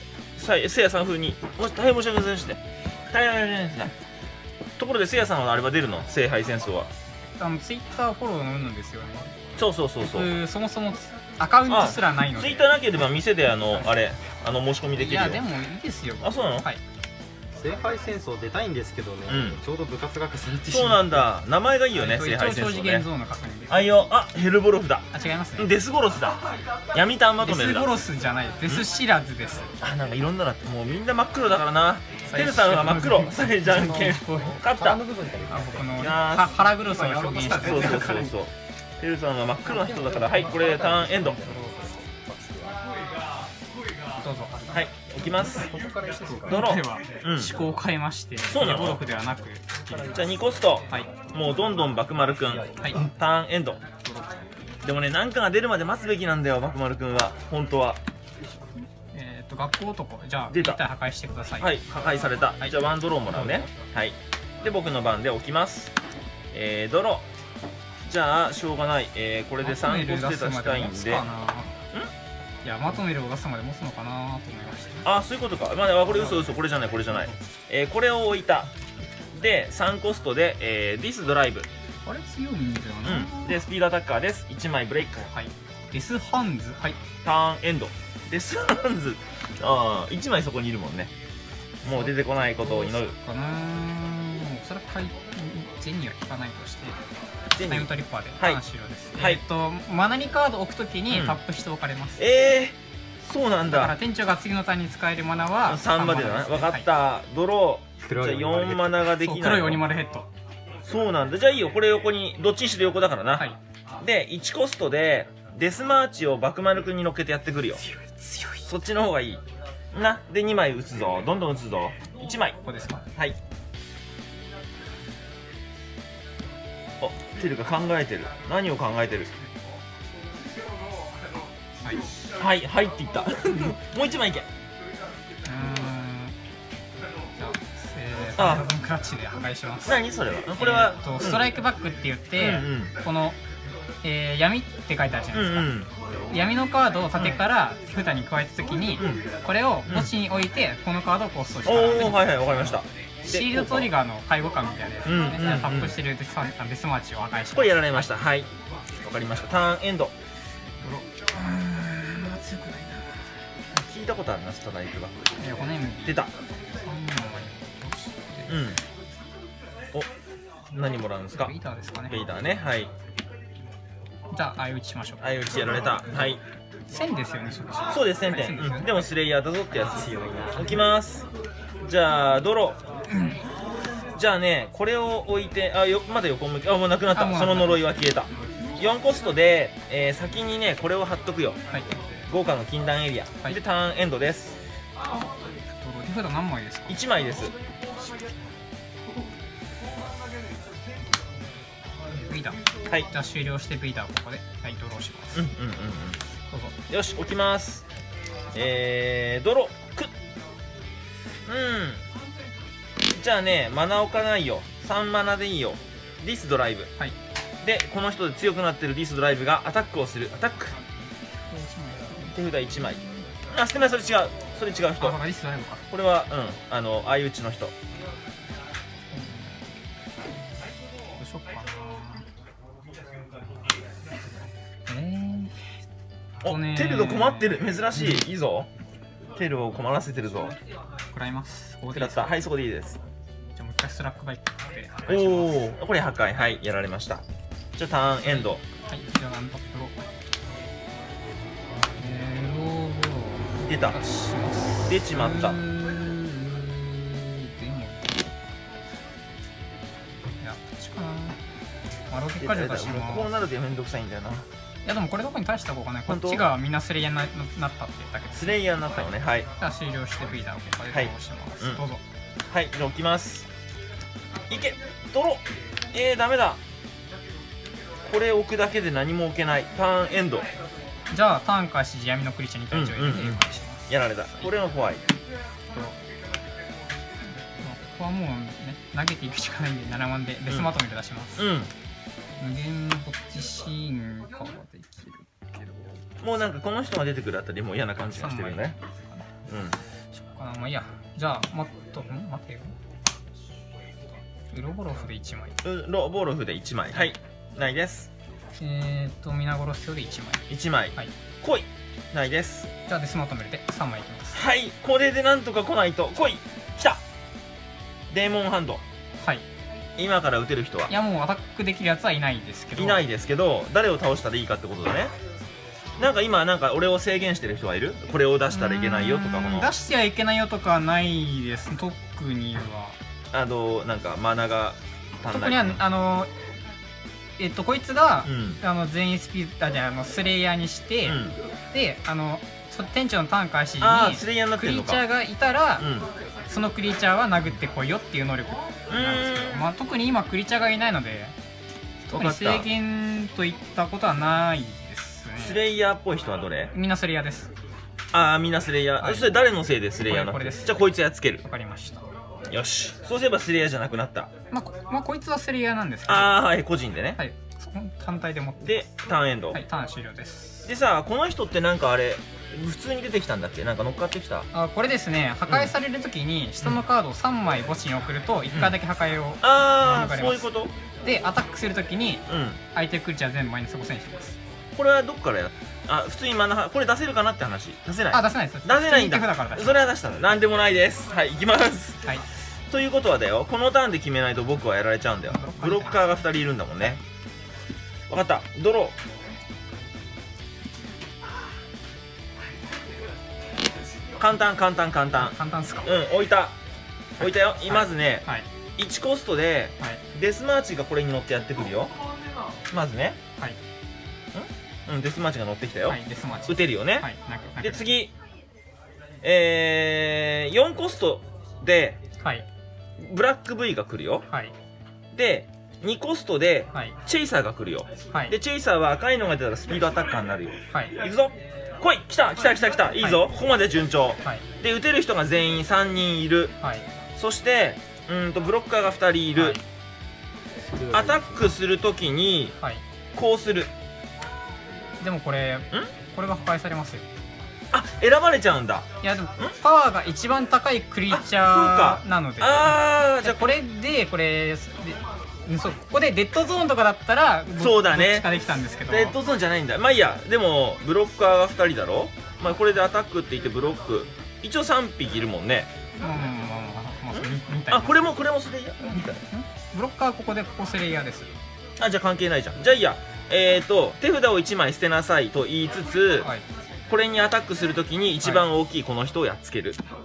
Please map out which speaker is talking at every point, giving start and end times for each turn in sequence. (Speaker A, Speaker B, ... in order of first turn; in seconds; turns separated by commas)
Speaker A: 0.4-3.9, Speaker A: 4.8-6.9, Speaker B: 7.4-9.3, Speaker A: 9.6-10.3, Speaker B: 10.0-12.7, Speaker A: 11.7-15.4, Speaker B: 14.9-16.8, Speaker A: 16.2-16.7, Speaker C: 17.6-21.3, Speaker A: 19.3-19.6, Speaker A: 20.7-23.1, Speaker B: 21.9-23.9, Speaker A: 23.7-25.1, Speaker B: 25.1-25.7, Speaker A: 25.6-26.4, Speaker A: 26.9-27.9, Speaker B: 27.4-29.7, Speaker A: 29.8-35.0, Speaker B: 32.3-34.6, Speaker C: 33.7-36.0, Speaker B: 35.5-38.4, Speaker A: 36.0-36.5, Speaker C: 37.0-38.3, Speaker A: 37.6-41.5, Speaker C: 39.7-42.8, Speaker B: 44.2-44.8, Speaker A: 44.7-45.7, Speaker C: 45.5-46.6, Speaker B: 45.7-50.3, Speaker A: 46.5-47.6, Speaker A: 48.5-49.0, Speaker A: 50.1-53.8, Speaker C: 52.6-52.9, Speaker B: 52.8-53.1, Speaker A: 54.8-58.0, Speaker B: 59.1-61.7, Speaker A: 60.5-60.8, Speaker A: 61.6-65.9, Speaker B: 62.6-63.8, Speaker A: 66.5-67.2, Speaker A: 68.0-71.3, Speaker B: 69.6-71.8, Speaker B: 72.6-75.0, Speaker A: 75.0-78.7, Speaker B: 76.1-76.5, Speaker B: 77.1-77.3, Speaker A: 79.4-81.7, Speaker B: 82.1-83.7, Speaker A: 83.0-85.3, Speaker B: 85.2-87.0, Speaker A: 87.2-91.1, Speaker A: 91.8-93.2, Speaker B: 91.8-97.0, Speaker A: 97.6-98.6, Speaker B: 97.6-102.2, Speaker A: 101.1-101.4, Speaker A: 102.2-104.0, Speaker B: 103.7-106.9, Speaker A: 105.7-109.8, Speaker C: 108.0-108.9, Speaker B: 109.0-110.3, Speaker A: 110.9-113.5, Speaker A: 114.0-117.8, Speaker B: 117.9-118.6, Speaker A: 118.7-122.6, Speaker B: 122.6-123.0, Speaker A: 127.0-129.3, Speaker A: 132.4-134.5, Speaker B: 135.5-136.3, Speaker B: 137.4-140.0, Speaker A: 138.4-138.7, Speaker A: 139.8-141.5, Speaker B: 140.6-143.4, Speaker A: 142.4-142.9, Speaker B: 144.0-145.8, Speaker A: 145.3-145.9, Speaker B: 146.3-158.1, Speaker A: 151.7-153.9, Speaker A: 155.1-156.0, Speaker A: 157.5-160.1, Speaker B: 160.8-163.3, Speaker A: 163.7-165.1, Speaker B: 165.4-166.3, Speaker A: 166.1-166.3, Speaker B: 166.8-168.7, Speaker A: 168.5-168.8, Speaker A: 170.7-171.6, Speaker B: 171.3-172.2, Speaker A: 172.1-172.9, Speaker B: 174.3-175.9, Speaker A: 175.2-176.4, Speaker B: 176.9-179.0, Speaker A: 177.9-181.3, Speaker C: 179.8-180.8, Speaker A: 181.8-182.8, Speaker A: 184.2-191.6, Speaker B: 187.1-187.9, Speaker A: 192.3-194.6, Speaker B: 195.8-197.0, Speaker A: 196.9-197.5, Speaker B: 202.3-205.5, Speaker A: 205.3-206.2, Speaker B: 206.5-206.8, Speaker A: 206.9-207.8, Speaker A: 208.5-210.1, Speaker A: 211.5-212.0, Speaker A: 213.1-216.9, Speaker A: 217.6-220.8, Speaker B: 221.5-223.2, Speaker A: 222.3-225.2, Speaker B: 225.0-225.9, Speaker A: 225.9-227.7, Speaker B: 229.1-229.7, Speaker B: 231.2-232.3, Speaker B: 234.9-235.8, Speaker A: 236.4-238.7, Speaker B: 236.4-237.7, Speaker A: 239.3-240.6, Speaker B: 241.1-242.3, Speaker A: 241.9-243.0, Speaker B: 243.6-245.7, Speaker A: 245.1-247.2, Speaker A: 247.8-248.6, Speaker B: 248.2-249.9, Speaker B: 252.0-258.3, Speaker A: 253.6-254.0, Speaker A: 254.9-255.6, Speaker B: 260.4-261.4, Speaker B: 262.1-263.3, Speaker A: 262.4-264.4, Speaker B: 264.9-268.6, Speaker A: 266.1-266.4, Speaker A: 268.4-269.5, Speaker B: 269.6-272.0, Speaker A: 270.9-271.8, Speaker A: 272.5-273.5, Speaker A: 274.5-276.6, Speaker A: 278.1-280.5, Speaker B: 281.1-284.5, Speaker A: 282.7-285.1, Speaker B: 287.6-291.5, Speaker A: 291.4-291.7, Speaker B: 292.4-296.0, Speaker A: 296.2-298.8, Speaker B: 298.1-299.3, Speaker A: 299.5-299.8, Speaker B: 300.1-302.8, Speaker B: 304.5-305.6, Speaker A: 305.6-308.1, Speaker B: 308.6-311.1, Speaker A: 310.5-312.7, Speaker B: 312.9-314.4, Speaker A: 314.3-317.0, Speaker A: 318.1-318.8, Speaker B: 319.2-319.5, Speaker A: 320.0-320.9, Speaker B: 320.9-323.1, Speaker A: 322.8-325.1, Speaker A: 326.0-329.7, Speaker B: 328.5-333.0, Speaker A: 333.3-335.8, Speaker B: 335.3-336.3, Speaker B: 337.4-341.2, Speaker A: 338.2-338.6, Speaker A: 341.1-341.4, Speaker B: 341.7-345.9, Speaker A: 343.8-345.0, Speaker A: 345.8-346.1, Speaker B: 346.5-351.4, Speaker A: 348.9-349.7, Speaker B: 352.1-355.6, Speaker A: 352.1-352.7, Speaker A: 355.4-356.7, Speaker B: 356.7-357.5, Speaker A: 358.1-361.4, Speaker B: 359.0-359.4, Speaker B: 360.0-360.8, Speaker B: 361.4-362.1, Speaker A: 362.5-364.3, Speaker B: 364.5-366.4, Speaker A: 366.1-367.2, Speaker B: 367.2-368.9, Speaker A: 368.6-369.6, Speaker B: 369.5-370.7, Speaker A: 370.7-374.5, Speaker B: 374.5-380.5, Speaker A: 375.5-375.7, Speaker A: 379.4-380.7, Speaker B: 381.0-382.2, Speaker A: 382.3-382.6, Speaker B: 382.7-384.4, Speaker A: 384.8-392.2, Speaker B: 388.1-389.8, Speaker A: 392.7-397.0, Speaker B: 395.3-396.2, Speaker A: 398.1-398.9, Speaker A: 404.2-406.6, Speaker B: 405.2-405.9, Speaker A: 407.2-411.9, Speaker B: 407.6-408.5, Speaker A: 412.7-413.2, Speaker A: 414.4-417.1, Speaker B: 415.9-417.9, Speaker A: 417.6-418.1, Speaker A: 419.2-422.0, Speaker A: 423.0-424.2, Speaker A: 425.1-436.5, Speaker B: 430.7-431.0, Speaker B: 433.0-433.3, Speaker B: 436.6-436.9, Speaker A: 437.2-439.6, Speaker B: 439.4-439.6, Speaker C: 440.6-441.4, Speaker A: 440.9-442.5, Speaker A: 443.1-443.7, Speaker B: 445.0-447.1, Speaker A: 447.7-448.9, Speaker B: 449.0-459.2, Speaker A: 451.1-453.6, Speaker A: 457.6-458.3, Speaker A: 458.9-465.7, Speaker B: 466.0-468.2, Speaker A: 467.1-469.2, Speaker B: 468.8-471.3, Speaker A: 471.8-476.3, Speaker B: 476.2-476.4, Speaker A: 476.9-479.8, Speaker B: 478.2-478.5